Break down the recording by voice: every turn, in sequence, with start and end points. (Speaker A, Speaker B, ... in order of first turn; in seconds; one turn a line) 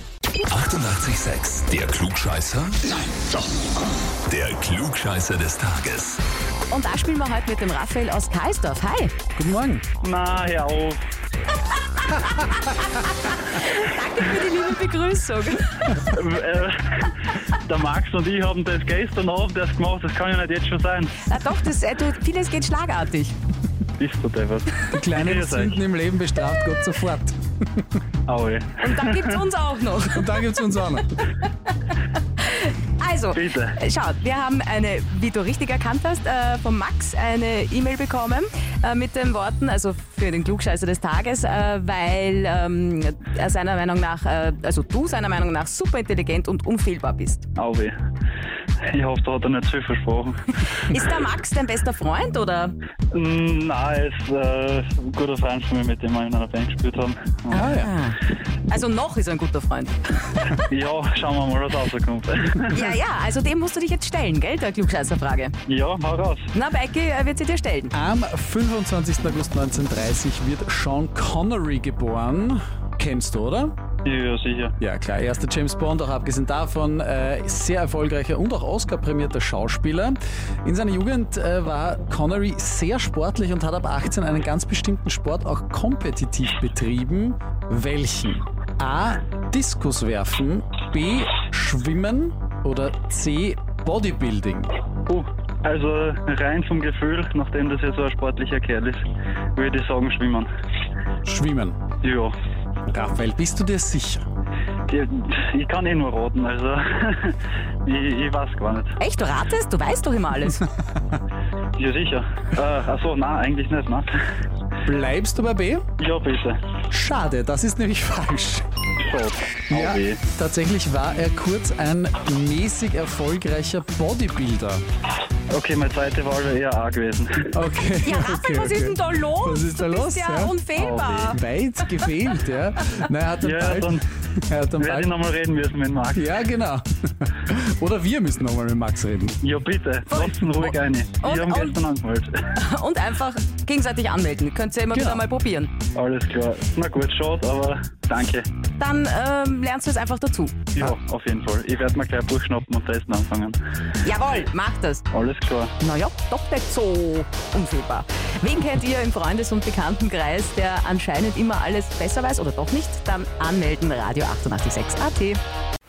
Speaker A: 0.5-3.0
Speaker A: 4.2-6.2
Speaker B: 6.7-9.1
Speaker C: 9.4-9.8
Speaker D: 10.0-11.0
Speaker B: 12.0-15.9
Speaker D: 15.9-21.3
Speaker B: 21.2-23.3
Speaker D: 24.0-25.8
Speaker C: 24.9-27.9
Speaker D: 28.2-29.4
Speaker B: 28.8-30.3
Speaker C: 30.1-31.2
Speaker B: 32.5-47.5
Speaker D: 33.3-33.8
Speaker D: 47.6-47.9
Speaker D: 48.9-51.0
Speaker B: 50.7-52.8
Speaker D: 53.1-57.7
Speaker B: 57.5-60.5
Speaker C: 57.5-58.0
Speaker D: 60.7-62.9
Speaker B: 62.7-65.5
Speaker D: 65.7-66.5
Speaker B: 66.5-67.9
Speaker C: 67.9-73.7
Speaker D: 74.0-74.8
Speaker C: 74.8-94.8
Speaker D: 95.1-100.5
Speaker C: 101.2-101.8
Speaker D: 102.0-102.3
Speaker C: 102.9-104.2
Speaker D: 104.9-109.0
Speaker B: 109.0-110.7
Speaker D: 111.8-114.1
Speaker C: 114.8-115.8
Speaker D: 116.0-116.6
Speaker C: 116.9-118.7
Speaker D: 119.0-120.2
Speaker C: 119.7-124.8
Speaker D: 125.5-127.5
Speaker C: 127.5-130.6
Speaker B: 128.0-131.4
Speaker D: 130.7-131.4
Speaker C: 131.3-135.1
Speaker D: 133.4-134.1
Speaker D: 134.8-136.3
Speaker C: 136.1-139.4
Speaker D: 139.4-142.3
Speaker B: 140.1-141.8
Speaker B: 142.6-145.7
Speaker C: 144.9-145.2
Speaker D: 145.9-148.5
Speaker B: 148.8-150.6
Speaker D: 150.8-153.6
Speaker B: 154.0-155.1
Speaker D: 155.1-155.8
Speaker B: 155.8-165.4